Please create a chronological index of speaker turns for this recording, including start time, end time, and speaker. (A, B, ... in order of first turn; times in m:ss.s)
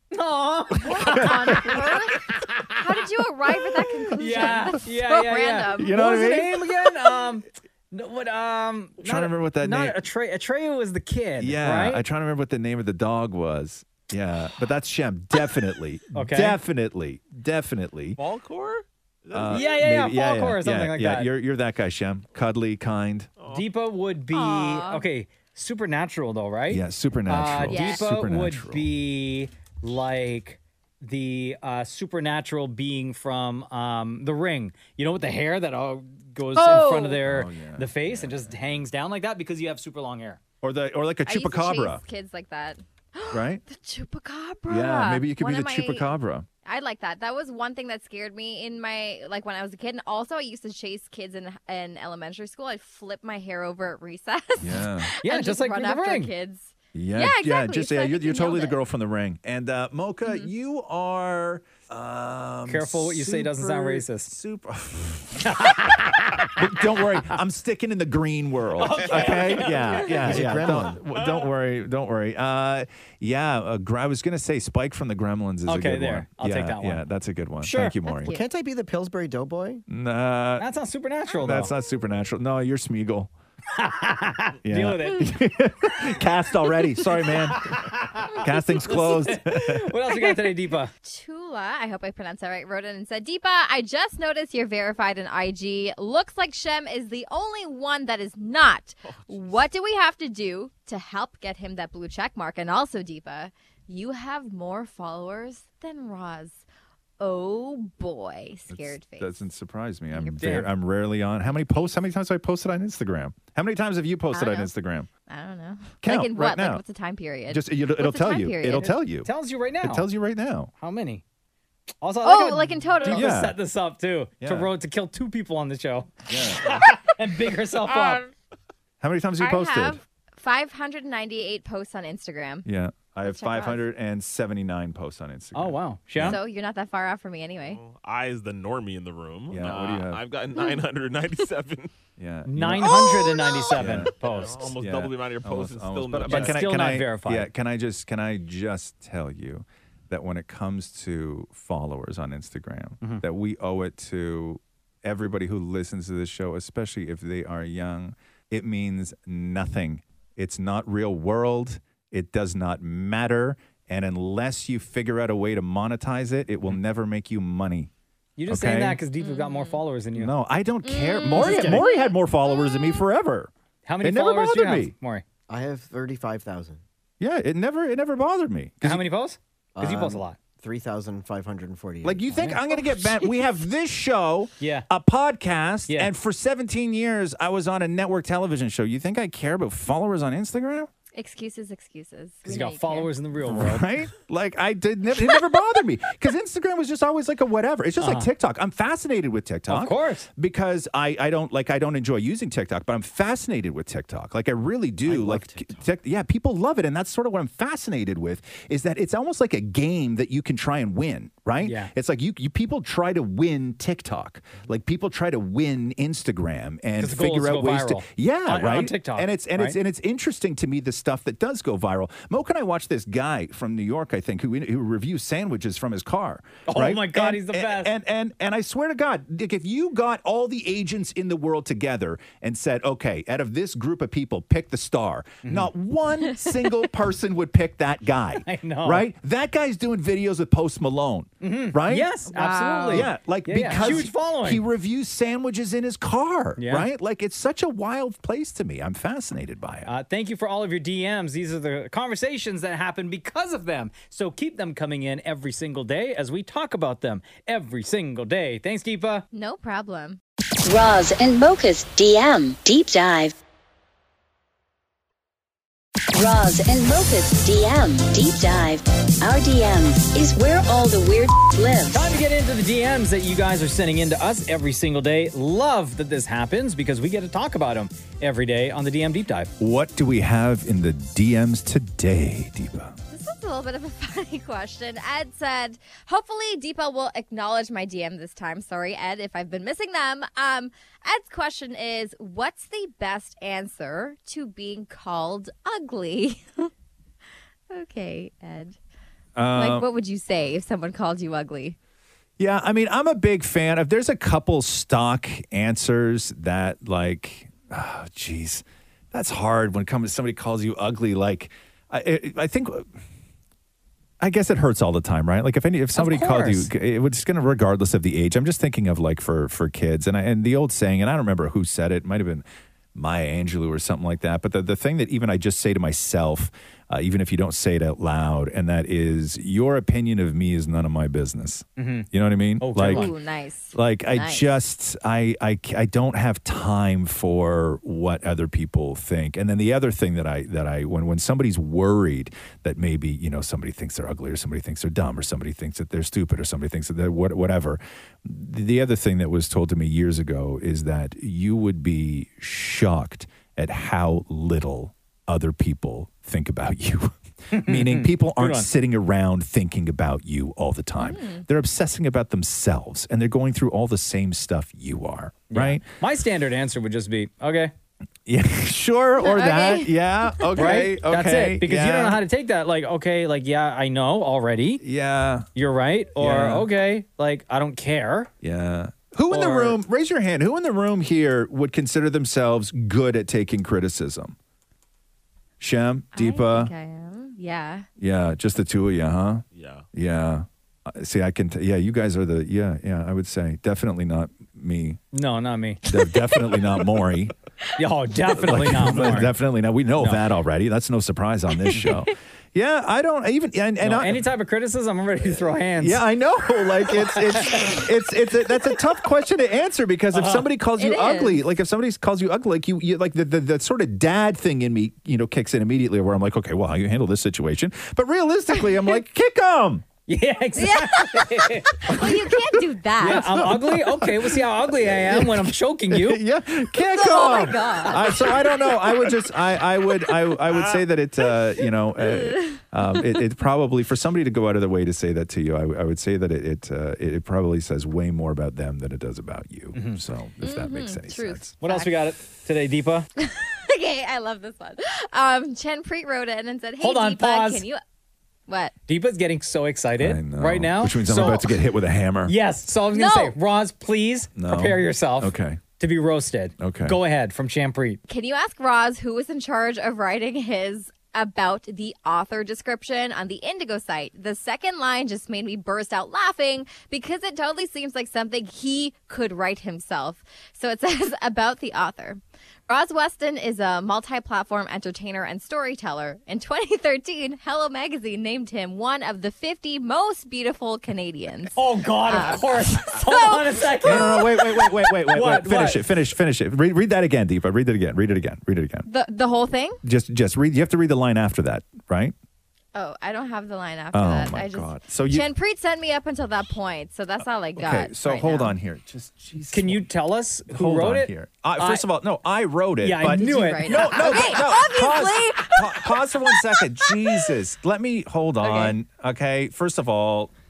0:00.1-0:01.8 A
0:00.8-0:02.4 B
0:00.8-0:06.1 C
0:04.2-0:12.0 A
0:04.3-0:04.6 B
0:05.7-0:06.8 B
0:09.0-0:10.0 B
0:11.4-0:18.2 B
0:16.1-0:16.6 A
0:18.2-0:19.8 D
0:19.3-0:23.3 B
0:19.5-0:21.3 A
0:23.4-0:23.6 D
0:23.5-0:40.4 A
0:24.3-0:25.0 C
0:26.7-0:28.9 B
0:27.7-0:28.0 C
0:36.5-0:37.2 C
0:37.2-0:38.8 B
0:40.6-0:42.0 B
0:41.2-0:46.1 C
0:43.3-0:43.6 B
0:44.7-0:46.5 B
0:46.6-0:58.8 C
0:54.6-0:55.1 B
0:55.2-0:56.3 A
0:56.9-1:18.4 B
1:02.7-1:04.3 A
1:05.4-1:06.5 A
1:08.8-1:10.6 A
1:10.2-1:11.0 E
1:15.6-1:17.0 A
1:17.6-1:18.0 A
1:18.0-1:18.4 C
1:18.3-1:19.8 E
1:19.9-1:20.7 B
1:20.6-1:21.7 A
1:21.3-1:23.3 B
1:23.7-1:25.3 A
1:24.6-1:29.9 B
1:27.2-1:30.9 A
1:31.0-1:46.6 C
1:39.0-1:39.5 D
1:47.2-1:49.4 C
1:48.7-1:55.1 B
1:50.1-1:50.7 C
1:50.4-1:50.7 A
1:54.3-1:54.7 C
1:55.3-1:59.0 C
1:56.0-1:56.8 B
1:57.5-1:59.3 B
1:59.2-2:00.1 A
1:59.8-2:00.7 B
2:00.8-2:01.2 A
2:02.0-2:08.2 A
2:02.2-2:03.4 C
2:03.1-2:03.6 B
2:04.4-2:04.7 B
2:06.3-2:06.8 B
2:09.0-2:10.0 B
2:09.4-2:12.6 C
2:12.6-2:16.4 B
2:13.2-2:13.9 C
2:15.5-2:16.4 A
2:16.2-2:17.8 C
2:17.6-2:21.9 D
2:19.5-2:20.2 B
2:22.2-2:47.9 B
2:22.4-2:24.7 A
2:23.2-2:23.7 C
2:24.0-2:26.6 D
2:26.3-2:27.5 A
2:48.4-2:50.3 A
2:48.5-2:49.0 B
2:49.2-2:49.8 C
2:50.1-2:53.5 B
2:50.8-2:53.0 C
2:51.3-2:51.8 A
2:53.8-2:55.2 A
2:54.0-2:54.9 B
2:55.5-2:56.8 E
2:57.2-2:59.0 B
2:58.8-3:00.4 A
2:59.8-3:02.5 E
3:02.0-3:10.9 B
3:02.8-3:03.3 C
3:04.6-3:04.9 A
3:11.1-3:13.1 C
3:12.4-3:13.9 A
3:13.4-4:02.2 B
3:18.0-3:18.3 A
3:19.7-3:20.3 A
3:25.1-3:25.8 E
3:31.6-3:31.9 A
3:37.0-3:39.8 A
3:46.6-3:47.9 A
3:55.4-3:55.7 A
3:58.4-3:59.1 A
4:01.4-4:04.6 A
4:02.3-4:03.1 C
4:02.9-4:09.9 B
4:03.7-4:04.0 C
4:06.6-4:06.9 A
4:09.9-4:19.2 A
4:19.3-4:20.2 C
4:20.6-4:23.3 F
4:26.1-4:32.1 F
4:31.9-4:39.5 A
4:39.6-4:43.0 B
4:43.1-4:56.7 C
4:57.7-4:58.8 C
4:59.4-4:59.9 B
4:59.5-5:01.8 C
5:02.4-5:13.0 B
5:14.2-5:33.1 B
5:15.9-5:16.7 A
5:31.8-5:32.1 A
5:32.6-5:33.1 A
5:32.9-5:34.5 C
5:33.7-6:05.8 B
5:57.5-5:58.7 A
6:01.0-6:01.4 C
6:05.5-6:07.7 A
6:08.2-6:12.2 B
6:09.2-6:10.8 C
6:10.5-6:14.8 A
6:14.8-6:15.5 B
6:15.5-6:18.3 A
6:16.2-6:16.7 B
6:18.4-6:24.4 B
6:19.3-6:19.8 A
6:25.6-6:26.7 B
6:26.1-6:27.8 C
6:28.0-6:35.0 B
6:29.5-6:29.8 D
6:35.1-6:35.8 A
6:35.8-6:37.3 B
6:37.8-6:39.3 A
6:38.4-6:44.3 B
6:40.0-6:40.2 A
6:43.8-6:46.0 A
6:45.7-6:59.8 B
6:47.2-6:47.8 A
6:50.1-6:50.5 A
6:50.8-6:51.4 C
7:00.1-7:01.8 A
7:00.6-7:03.5 C
7:01.9-7:21.5 B
7:03.0-7:06.2 A
7:06.8-7:09.2 C
7:12.1-7:13.0 C
7:19.7-7:20.0 A
7:20.4-7:22.1 C
7:21.6-7:23.1 A
7:23.2-7:27.8 C
7:26.8-7:27.6 A
7:28.5-7:28.7 C
7:28.9-7:31.5 A
7:30.0-7:32.3 B
7:31.2-7:31.4 C
7:32.2-7:38.0 A
7:32.9-7:33.4 C
7:34.4-7:35.6 B
7:36.6-7:37.0 B
7:38.1-8:04.2 C
8:01.5-8:05.9 A
8:03.8-8:08.9 B
8:08.8-8:09.8 C
8:09.8-8:12.1 B
8:12.7-8:18.5 C
8:13.9-8:15.3 B
8:17.5-8:19.9 B
8:19.5-8:21.8 A
8:20.5-8:30.3 B
8:22.8-8:24.4 A
8:23.0-8:27.3 C
8:28.4-8:28.7 C